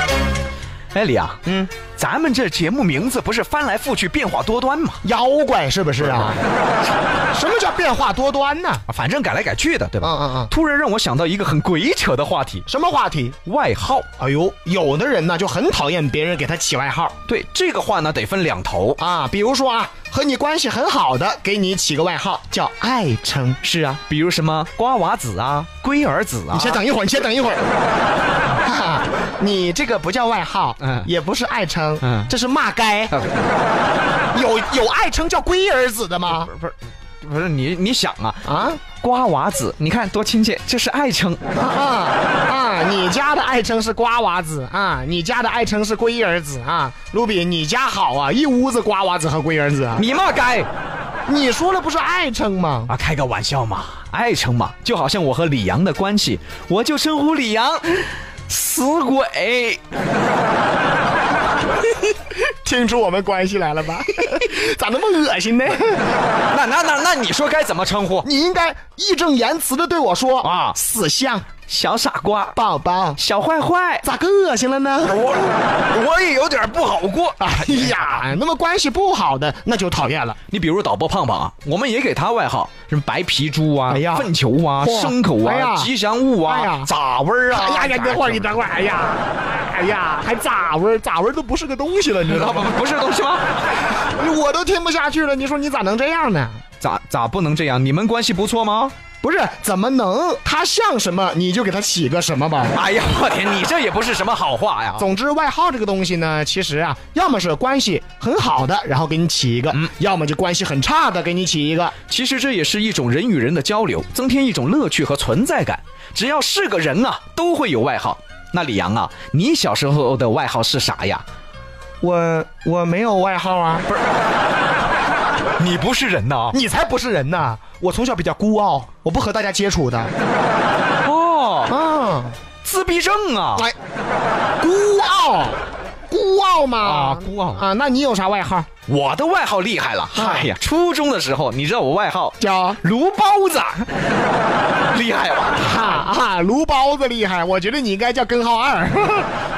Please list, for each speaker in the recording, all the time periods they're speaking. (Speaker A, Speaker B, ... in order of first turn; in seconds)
Speaker A: 0.9-5.0, 8.9-12.7, 13.4-14.1, 17.2-19.0, 23.6-26.8, 30.8-31.1, 32.0-32.3, 36.3-38.5, 39.0-41.4, 49.9-50.7, 52.9-59.8, 66.5-68.3, 70.4-70.8, 71.7-72.6, 73.2-74.0, 75.1-78.1, 80.5-88.6, 92.3-93.5, 96.8-98.9, 102.7-105.0, 112.1-121.2, 125.6-126.5, 131.0-131.7, 132.6-133.7, 136.8-137.6, 138.9-143.9, 144.9-145.8
Speaker B: 1.4-1.7, 5.0-6.4, 7.3-8.8, 10.0-10.5, 12.7-13.4, 14.2-17.1, 19.0-23.8, 26.5-27.6, 28.6-33.2, 34.3-36.5, 38.4-38.8, 41.5-50.0, 51.3-52.9, 62.6-66.0, 68.2-71.5, 72.5-73.2, 74.0-75.3, 77.4-80.4, 83.9-85.9, 86.4-86.9, 87.5-92.7, 93.9-96.6, 99.2-102.7, 105.0-111.9, 122.0-123.8, 126.5-130.1, 131.7-132.4, 134.6-138.7, 140.1-140.5, 142.4-142.8, 145.6-149.3